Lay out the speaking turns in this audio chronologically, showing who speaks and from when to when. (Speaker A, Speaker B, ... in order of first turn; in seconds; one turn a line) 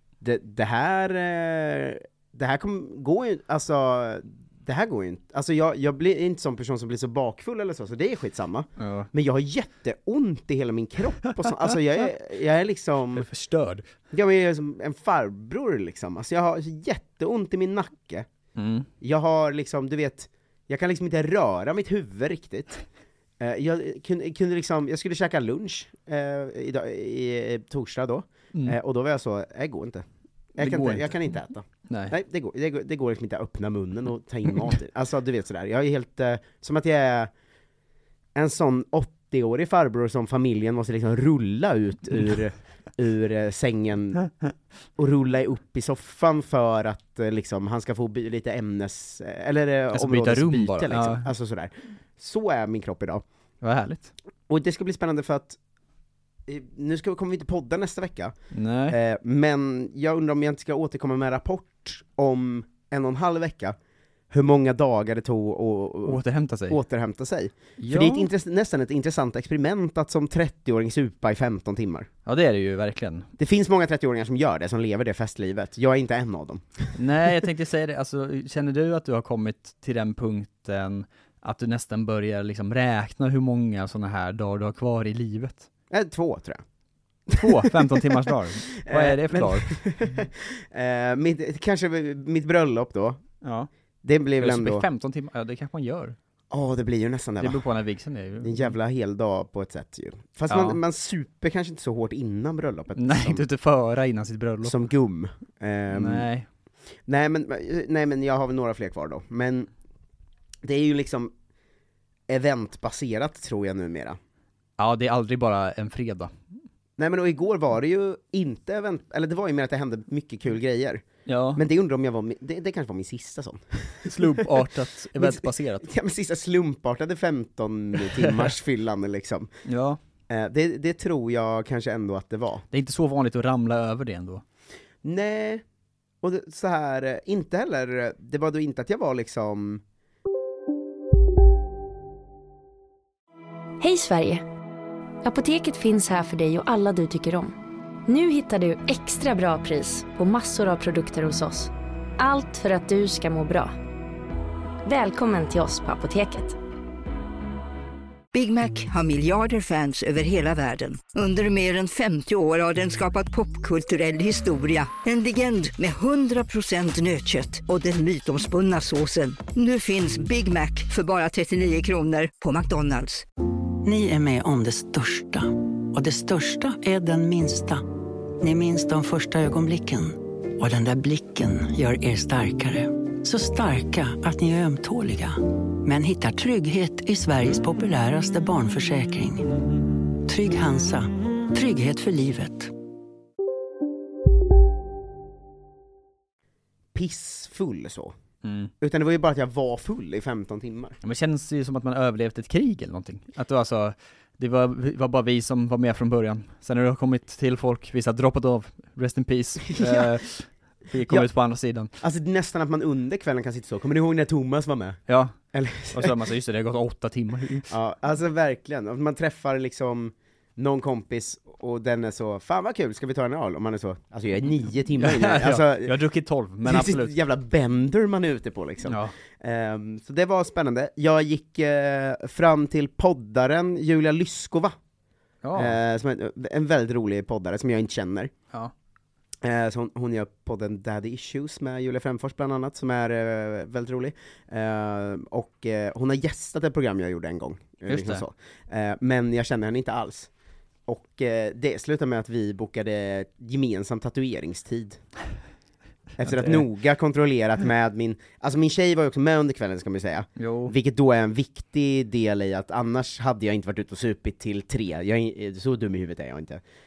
Speaker A: 0.2-13.3
Speaker B: 8.8-9.1
Speaker B: 13.2-13.8
Speaker A: 14.1-18.3
Speaker B: 18.6-18.9
Speaker A: 19.0-22.8
Speaker A: 23.4-37.3
Speaker B: 30.6-31.1
Speaker B: 31.9-32.1
Speaker A: 38.4-44.2
Speaker A: 45.0-53.2
Speaker B: 49.9-51.3
Speaker B: 53.6-54.1
Speaker A: 54.5-55.6
Speaker A: 56.5-58.4
Speaker B: 58.5-59.0
Speaker A: 58.9-63.8
Speaker A: 64.3-72.1
Speaker B: 66.1-66.8
Speaker B: 67.8-68.3
Speaker B: 72.3-73.3
Speaker A: 73.4-77.0
Speaker B: 77.0-85.7
Speaker A: 85.9-86.6
Speaker A: 87.3-93.2
Speaker B: 87.3-89.8
Speaker B: 93.4-93.7
Speaker A: 94.0-94.8
Speaker B: 94.4-96.2
Speaker A: 96.5-97.6
Speaker B: 97.4-98.7
Speaker A: 98.4-103.4
Speaker B: 100.5-100.8
Speaker B: 103.0-104.8
Speaker A: 104.6-106.3
Speaker B: 105.9-106.5
Speaker A: 107.1-109.7
Speaker A: 110.6-111.3
Speaker A: 112.3-114.2
Speaker B: 114.8-116.3
Speaker A: 117.0-124.5
Speaker B: 121.3-121.6
Speaker B: 124.1-125.9
Speaker A: 125.2-129.5
Speaker B: 129.7-130.0
Speaker A: 130.3-132.6
Speaker B: 132.7-134.4
Speaker A: 135.0-135.6
Speaker A: 136.2-139.8
Speaker C: 143.8-144.4
Speaker C: 145.2-147.5
Speaker C: 148.1-153.7
Speaker C: 154.8-156.6
Speaker D: 158.3-173.2
Speaker E: 173.8-177.8
Speaker E: 178.4-189.5
Speaker E: 190.2-192.7
Speaker A: 196.9-198.2
Speaker B: 198.4-198.7
Speaker A: 198.8-201.0
Speaker B: 201.0-211.9
Speaker A: 209.8-210.1
Speaker A: 212.0-215.0
Speaker B: 215.1-217.7
Speaker A: 215.5-216.2
Speaker A: 217.7-226.0
Speaker B: 225.0-227.1
Speaker A: 226.6-234.8
Speaker B: 228.8-229.1
Speaker B: 235.4-235.8
Speaker A: 235.6-238.3
Speaker A: 239.4-250.3
Speaker B: 247.9-248.2
Speaker A: 250.9-255.0
Speaker A: 256.2-266.6
Speaker B: 256.2-256.7
Speaker B: 260.4-260.8